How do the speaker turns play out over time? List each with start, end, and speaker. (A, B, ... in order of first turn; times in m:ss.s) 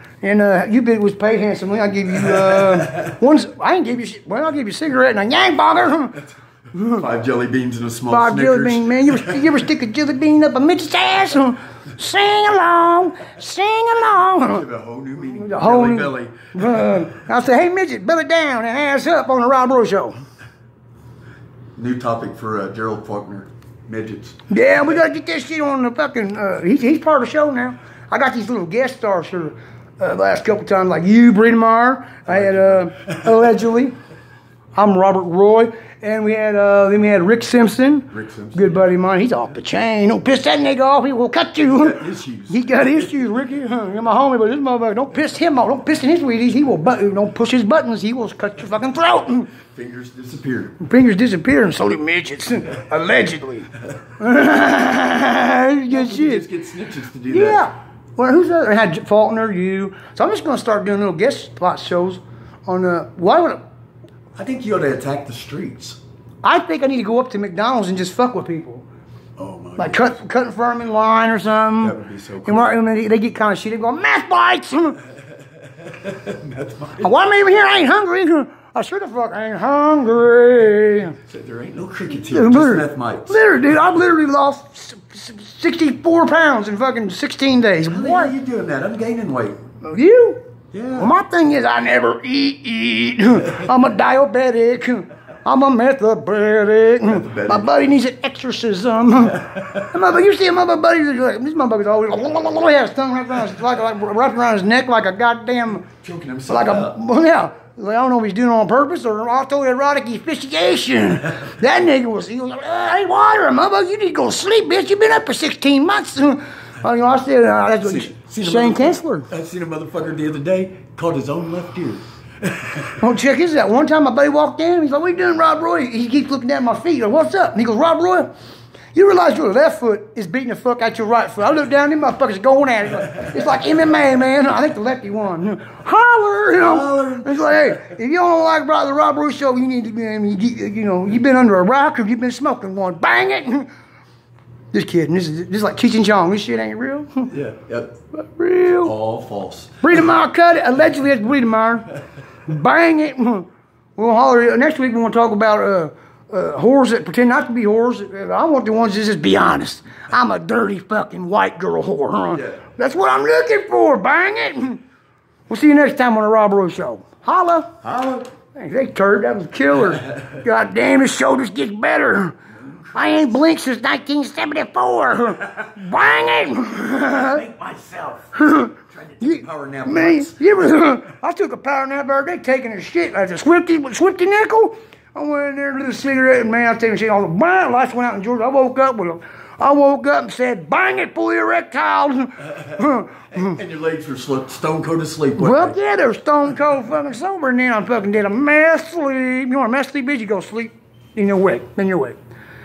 0:00.2-0:07.0 A
0:06.8-0:09.5 B
0:08.1-0:14.7 A
0:14.5-0:16.5 B
0:15.2-0:20.2 A
0:21.8-0:24.4 B
0:24.5-0:34.0 A
0:32.3-0:33.2 B
0:34.8-0:49.5 A
0:38.1-0:38.8 B
0:41.6-0:42.8 B
0:49.6-0:50.8 B
0:50.8-0:56.5 A
0:55.9-0:57.7 B
0:57.3-1:03.6 A
1:04.4-1:06.0 B
1:06.4-1:08.8 A
1:09.4-1:10.2 B
1:09.8-1:15.0 A
1:11.8-1:12.7 B
1:15.8-1:17.1 B
1:17.0-1:21.2 A
1:21.2-1:23.4 B
1:22.1-1:28.4 A
1:27.9-1:29.6 B
1:29.8-1:30.4 A
1:30.7-1:31.1 B
1:30.9-1:45.9 A
1:37.0-1:37.7 B
1:39.5-1:39.8 B
1:45.9-1:47.0 B
1:46.5-1:59.3 A
1:57.8-2:03.0 B
2:03.0-2:08.3 A
2:08.9-2:23.7 A
2:16.6-2:17.8 B
2:24.7-2:27.3 A
2:27.3-2:28.0 B
2:28.1-2:28.9 A
2:28.8-2:30.0 B
2:29.8-2:31.9 A
2:32.5-2:44.8 A
2:45.5-2:47.8 A
2:47.8-2:48.3 B
2:48.6-2:52.4 A
2:52.9-2:57.4 A
2:57.2-2:58.3 B
2:58.3-3:13.6 A
2:58.9-3:00.4 B
3:13.3-3:15.8 B
3:15.4-3:22.2 A